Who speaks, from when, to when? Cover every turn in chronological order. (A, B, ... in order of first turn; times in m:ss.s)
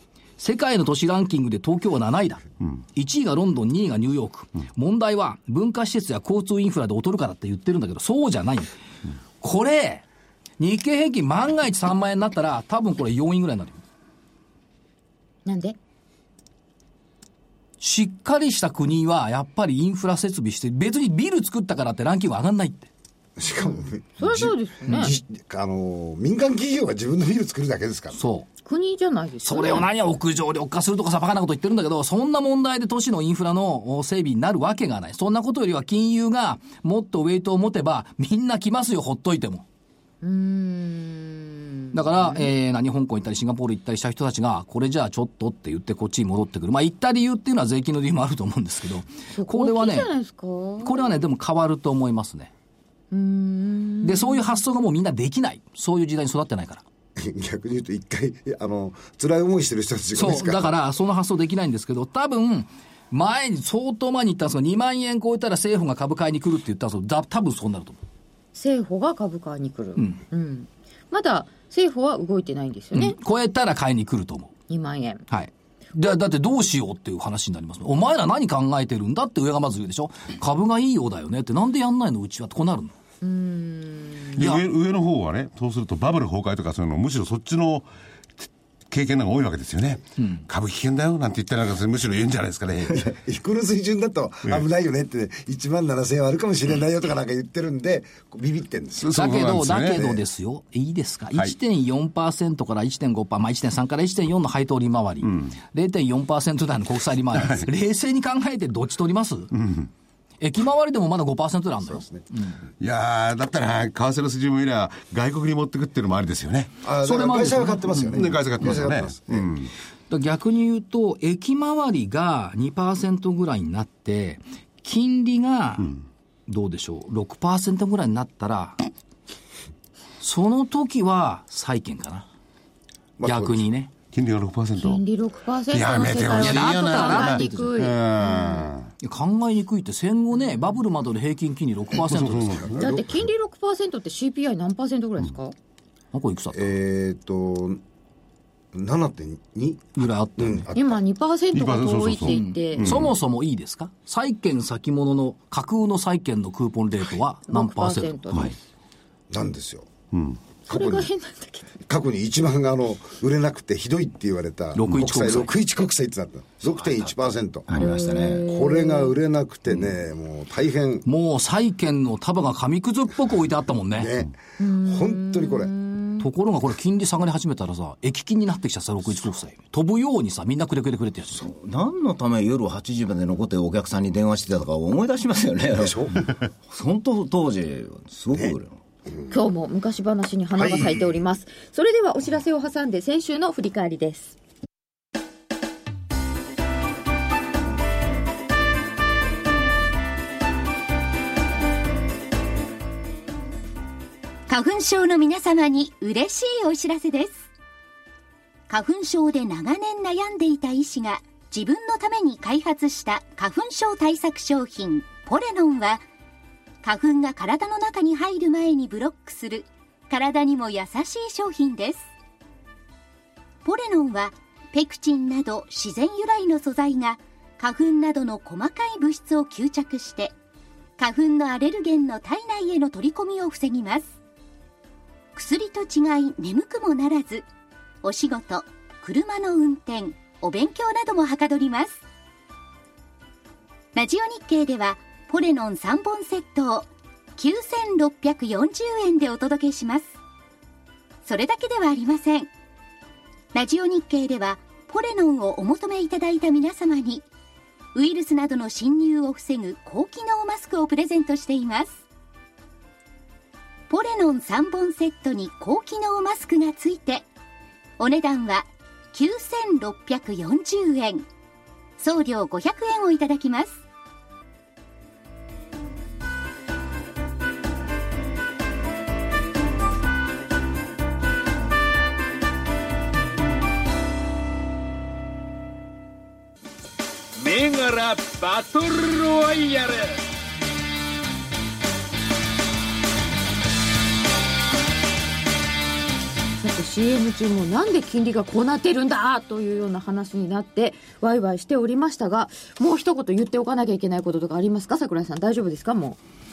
0:00.4-0:02.4 A
0:03.0-0:08.7 A
0:09.4-0:10.0 A
0:10.6-0:13.8 A
0:15.4-0:15.8 B
0:17.8-0:22.9 A
0:23.4-0:28.2 C
0:23.6-0:25.1 B
0:28.1-0:28.5 A
0:28.6-0:29.9 B
0:29.4-0:39.6 A
0:40.2-0:42.5 B
0:41.9-0:50.1 A
0:49.3-0:51.1 B
0:50.8-0:52.5 A
0:53.1-0:54.5 B
0:54.0-0:56.8 A
0:57.2-1:00.7 C
1:00.2-1:08.0 A
1:08.5-1:13.2 B
1:12.9-1:14.5 A
1:14.7-1:15.3 B
1:15.3-1:22.9 A
1:23.2-1:24.3 B
1:24.3-1:27.9 D
1:24.4-1:24.6 A
1:28.4-1:33.1 D
1:32.9-1:39.1 C
1:39.0-1:40.2 D
1:39.1-1:49.5 A
1:49.5-1:49.9 D
1:50.4-1:52.6 A
1:51.8-1:52.2 C
1:52.8-1:56.7 D
1:56.8-1:59.6 C
1:57.0-1:58.2 A
1:58.1-1:59.7 D
2:00.1-2:08.8 A
2:10.2-2:12.3 A
2:13.2-2:13.6 C
2:13.2-2:13.9 A
2:14.1-2:15.0 D
2:14.8-2:18.7 B
2:15.7-2:18.9 D
2:16.4-2:17.8 A
2:19.0-2:22.8 A
2:22.0-2:22.8 D
2:22.6-2:23.1 C
2:22.8-2:25.6 B
2:26.1-2:26.7 A
2:26.5-2:27.8 C
2:28.7-2:31.0 C
2:30.0-2:30.7 A
2:30.8-2:33.0 B
2:31.5-2:33.1 D
2:32.3-2:38.6 A
2:37.5-2:38.6 B
2:39.3-2:39.9 C
2:40.1-2:40.4 D
2:40.7-2:41.1 C
2:40.7-2:41.8 B
2:41.9-2:51.0 C
2:44.8-2:45.5 A
2:46.7-2:48.5 E
2:47.8-2:49.1 B
2:51.0-2:54.1 A
2:54.0-2:55.7 C
2:54.6-2:56.2 B
2:56.2-3:01.5 A
3:01.4-3:08.8 E
3:05.8-3:06.2 C
3:09.3-3:14.4 B
3:10.6-3:11.1 C
3:24.5-3:27.5 F
3:28.7-3:36.0 F
3:36.8-3:42.1 F
3:43.6-3:50.4 F
3:51.0-3:54.1 F
3:55.4-3:57.5 F
3:58.0-4:02.0 F
4:03.9-4:10.1 F
4:11.2-4:12.5 F
4:13.5-4:17.2 F
4:17.9-4:22.0 F
4:23.9-4:27.3 F
4:28.0-4:31.3 F
4:32.0-4:33.8 F
4:47.4-4:50.2 G
4:56.6-5:06.2 B